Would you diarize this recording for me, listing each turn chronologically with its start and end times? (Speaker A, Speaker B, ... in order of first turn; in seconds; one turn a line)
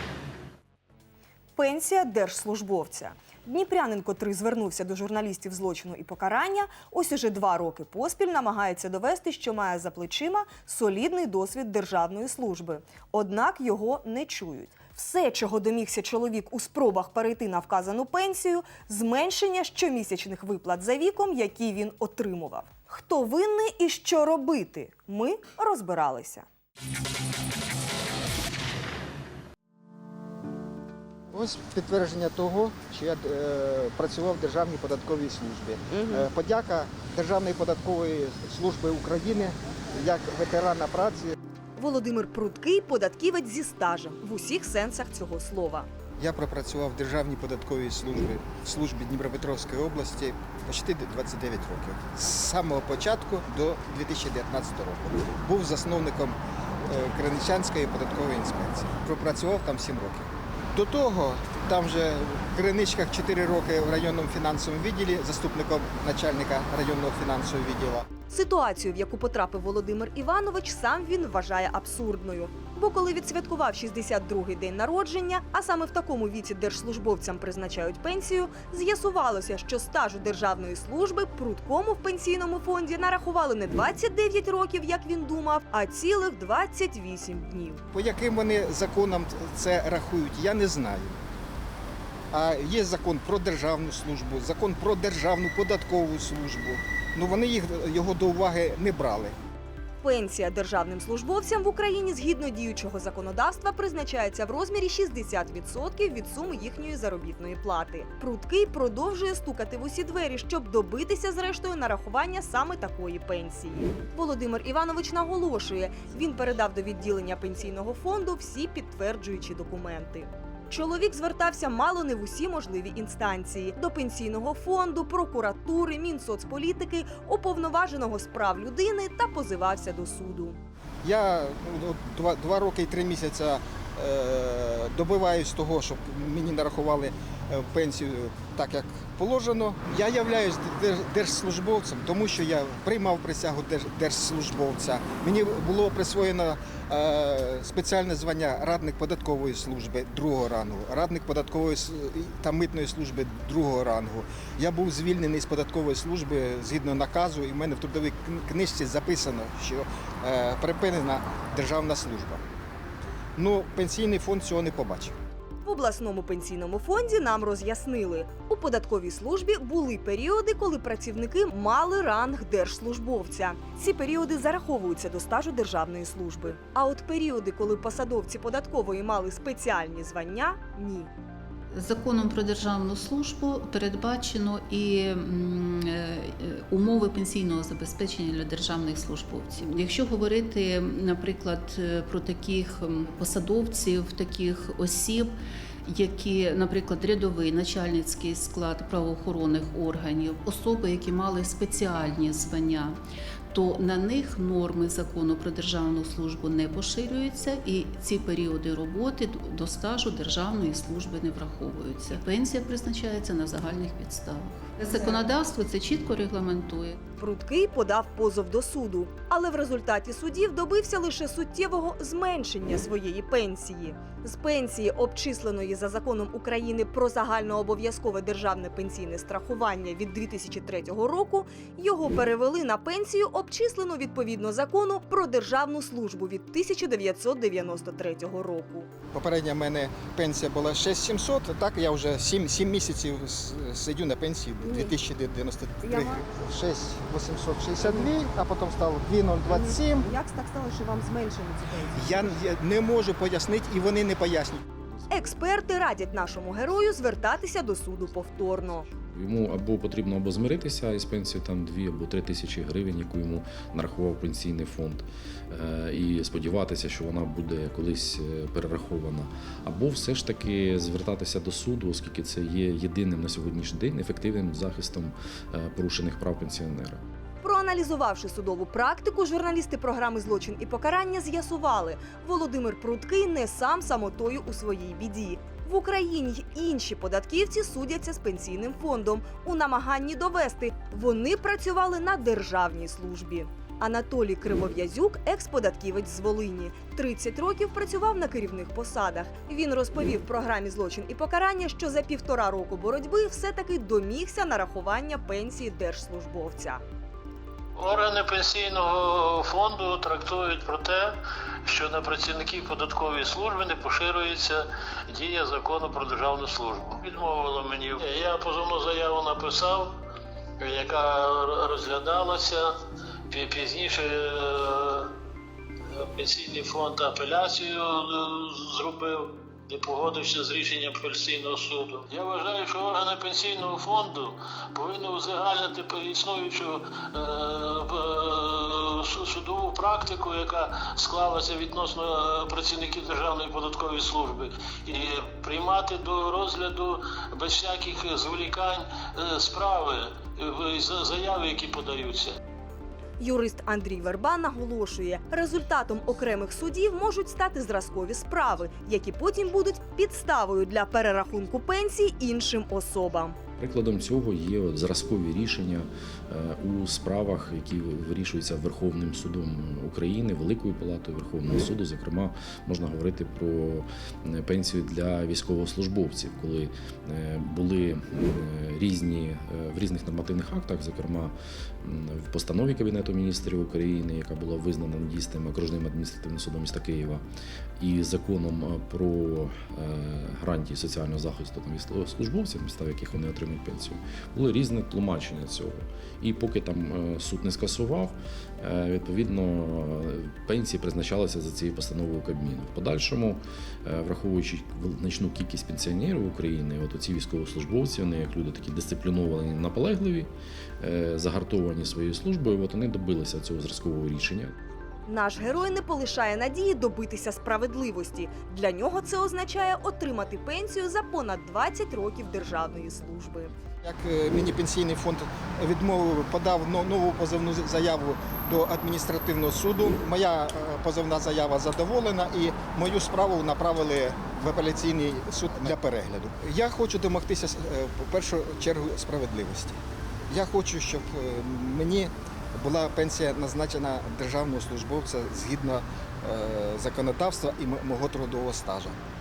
Speaker A: 1.6-26.4
Speaker B: 31.3-41.3
Speaker A: 41.8-45.9
Speaker B: 46.2-68.1
Speaker A: 68.3-87.8
Speaker B: 87.9-91.2
Speaker B: 92.3-99.3
Speaker A: 100.0-130.6
Speaker B: 131.0-162.4
Speaker B: 163.3-165.2
Speaker A: 165.6-181.1
Speaker C: 181.7-195.3
Speaker C: 195.8-203.0
Speaker C: 203.5-217.0
Speaker A: 217.2-238.9
Speaker B: 239.1-250.1
Speaker B: 251.9-254.6
Speaker A: 255.1-258.9
Speaker D: 259.1-277.0
Speaker A: 277.4-306.8
Speaker E: 307.8-319.9
Speaker E: 320.6-322.7
Speaker E: 323.3-325.1
Speaker E: 325.9-352.4
Speaker A: 353.2-363.4
Speaker D: 363.6-387.2
Speaker D: 387.8-414.5
Speaker A: 415.1-423.5
Speaker B: 423.8-449.0